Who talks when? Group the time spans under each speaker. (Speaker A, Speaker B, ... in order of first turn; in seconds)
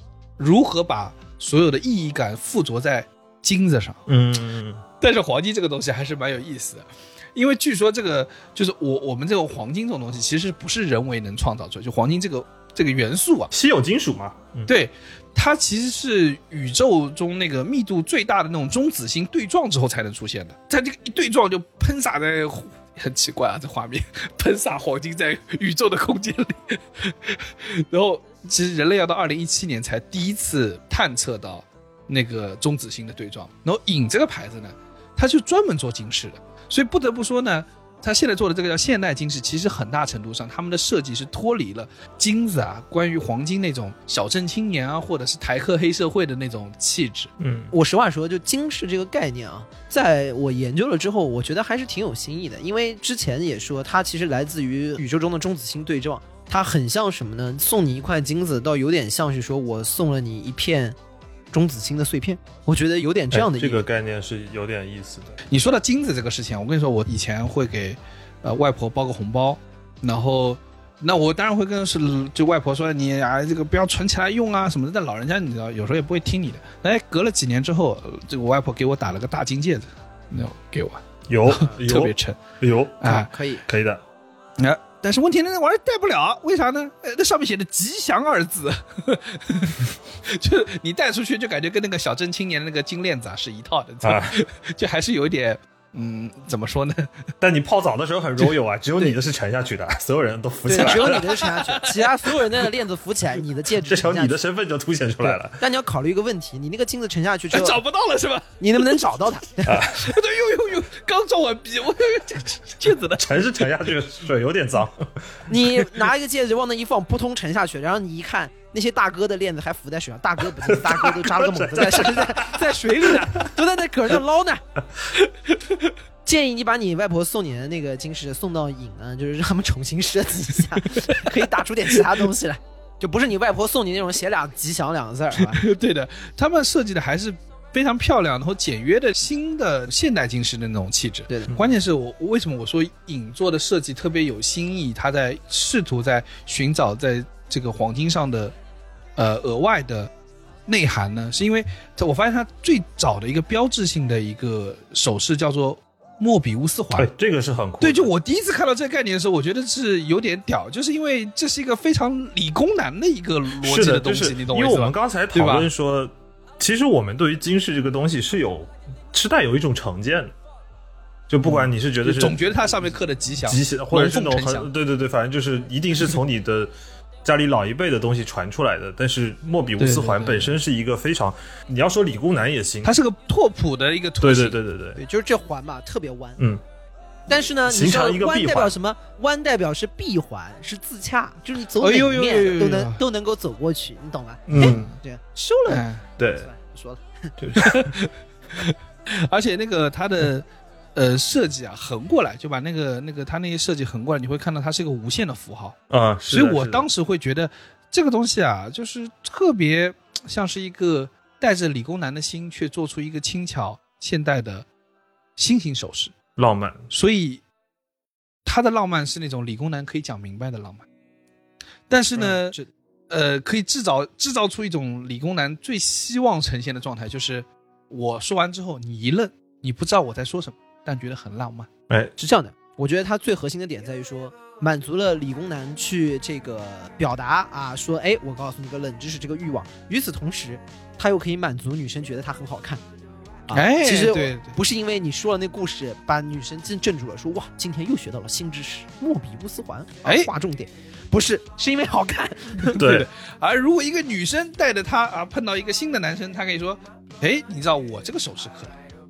Speaker A: 0.4-4.0, 5.0-13.5, 14.7-47.3, 65.5-82.4, 83.0-83.3, 84.6-97.3, 100.8-102.0, 107.5-108.9, 109.9-113.5, 130.8-131.4, 135.4-148.6, 149.2-150.1, 150.7-157.1, 157.8-165.7, 171.5-174.7, 179.8-180.6, 182.8-184.6, 191.8-193.0, 195.7-196.1, 197.6-205.8, 206.3-214.7, 215.4-216.1, 216.9-217.4, 218.4-220.9, 221.9-222.6, 223.1-231.7, 243.5-244.6, 250.1-250.3, 252.7-258.8
Speaker B: 4.1-4.8, 13.5-14.7, 47.4-47.7, 63.3-65.4, 81.3-84.0, 94.0-94.4, 97.4-101.3, 103.9-105.6, 109.7-110.1, 113.2-115.5, 120.7-122.6, 157.0-158.1, 163.6-170.3, 171.3-172.4, 173.5-176.7, 177.2-182.9, 184.2-185.0, 187.7-188.7, 194.5-194.9, 196.2-196.5, 197.4-197.9, 205.9-206.9, 216.4-216.9, 252.8-253.1
Speaker C: 47.7-61.0, 61.5-63.8, 83.1-83.6, 100.7-104.4, 105.2-107.8, 108.6-109.9, 115.5-124.6, 126.2-135.7, 141.3-141.5, 185.0-186.4, 187.3-197.3, 222.2-222.7, 232.2-242.8, 243.5-252.8